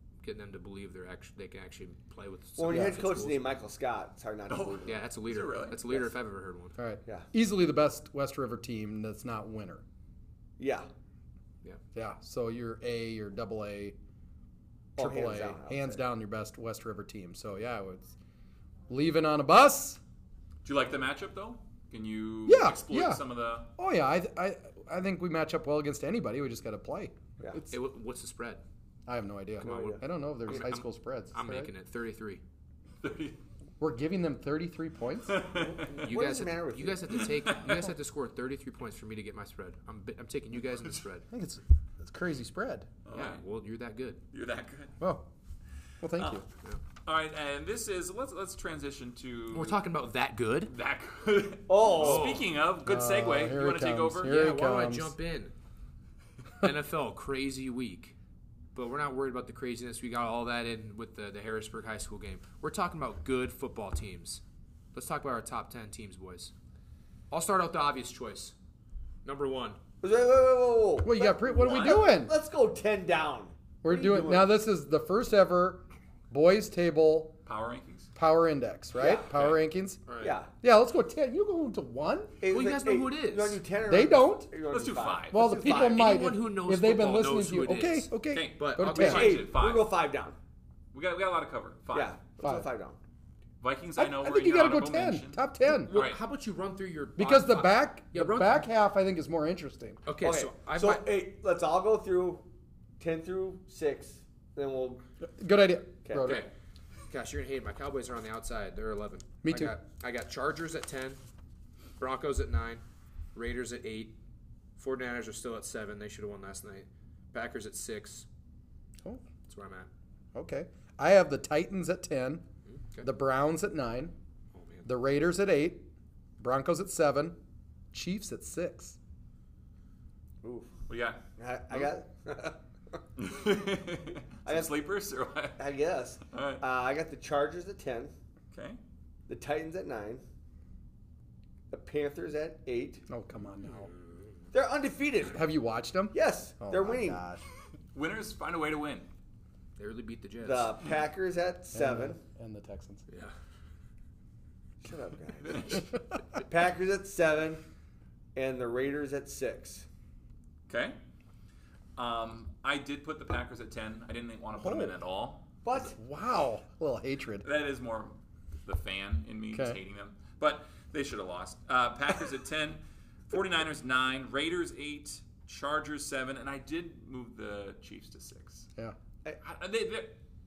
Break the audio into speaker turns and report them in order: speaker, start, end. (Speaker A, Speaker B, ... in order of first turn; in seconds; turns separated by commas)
Speaker A: 0.2-3.4, Speaker B: 2.6-5.0, Speaker C: 2.7-3.0, Speaker D: 4.5-5.8, Speaker A: 4.8-6.8, Speaker C: 6.8-9.8, Speaker B: 10.6-10.9, Speaker C: 11.9-13.9, Speaker B: 14.9-16.0, Speaker C: 15.0-18.1, Speaker C: 18.9-20.0, Speaker D: 20.6-23.7, Speaker C: 22.5-23.2, Speaker C: 23.8-27.7, Speaker A: 27.7-28.6, Speaker C: 29.1-31.7, Speaker B: 29.6-30.0, Speaker A: 29.6-32.4, Speaker D: 33.0-33.4, Speaker C: 33.8-35.4, Speaker D: 35.2-36.0, Speaker B: 35.9-37.2, Speaker A: 35.9-41.2, Speaker D: 37.3-37.9, Speaker C: 41.3-42.9, Speaker D: 43.0-43.4, Speaker A: 43.1-44.2, Speaker D: 44.3-44.9, Speaker C: 45.0-45.3, Speaker C: 46.0-46.4, Speaker D: 46.1-46.4, Speaker D: 47.0-49.8, Speaker A: 49.5-50.7, Speaker D: 50.7-54.5, Speaker B: 51.7-52.4, Speaker A: 51.9-52.5, Speaker C: 52.8-55.1, Speaker A: 54.2-55.5, Speaker A: 56.6-58.1, Speaker A: 58.7-64.4, Speaker A: 64.9-66.5, Speaker A: 67.3-68.5, Speaker A: 69.2-69.8, Speaker B: 70.0-74.5, Speaker C: 71.0-72.3, Speaker D: 71.7-72.0, Speaker C: 73.8-77.4, Speaker D: 77.5-78.1, Speaker C: 78.2-80.0, Speaker B: 79.0-79.3, Speaker D: 79.3-79.6, Speaker A: 80.1-80.4, Speaker B: 80.2-80.5, Speaker C: 80.6-82.4, Speaker B: 82.4-86.1, Speaker A: 82.5-83.6, Speaker C: 83.9-84.5, Speaker D: 84.7-85.4, Speaker C: 85.3-89.4, Speaker A: 85.6-89.3, Speaker D: 88.3-89.9, Speaker B: 88.9-90.4, Speaker D: 90.9-92.1, Speaker B: 91.9-93.0, Speaker C: 92.4-92.7, Speaker D: 93.6-96.2, Speaker C: 94.0-95.9, Speaker A: 95.7-98.7, Speaker C: 97.2-100.0, Speaker A: 100.0-101.0, Speaker B: 100.2-102.5, Speaker B: 103.0-105.0, Speaker C: 105.2-106.5, Speaker B: 106.0-106.4, Speaker A: 106.2-106.5, Speaker A: 107.1-111.2, Speaker C: 109.4-109.7, Speaker A: 112.0-112.8, Speaker A: 113.3-114.2, Speaker A: 114.8-118.2, Speaker A: 119.5-119.9, Speaker C: 120.3-122.4, Speaker A: 122.7-123.1, Speaker C: 123.0-124.1, Speaker A: 124.5-124.9, Speaker C: 124.8-125.9, Speaker C: 126.4-127.4, Speaker C: 127.9-129.0, Speaker B: 130.4-130.7, Speaker D: 130.9-131.2, Speaker B: 131.4-132.6, Speaker D: 133.2-135.6, Speaker B: 134.4-134.8, Speaker B: 135.6-138.1, Speaker D: 136.3-136.6, Speaker D: 138.5-138.8, Speaker B: 139.3-140.2, Speaker B: 141.7-143.0, Speaker C: 143.1-143.9, Speaker B: 144.5-145.4, Speaker C: 145.3-147.4, Speaker B: 146.1-147.2, Speaker D: 147.9-149.1, Speaker A: 149.8-150.8, Speaker B: 150.4-152.2, Speaker C: 151.7-153.0, Speaker A: 153.1-153.3, Speaker B: 154.8-157.6, Speaker D: 155.4-155.8, Speaker B: 158.3-159.8, Speaker D: 160.7-161.0, Speaker D: 161.9-165.5, Speaker C: 164.6-164.9, Speaker B: 165.6-166.0, Speaker C: 165.7-167.5, Speaker D: 167.4-178.7, Speaker C: 169.5-169.8, Speaker D: 179.4-180.2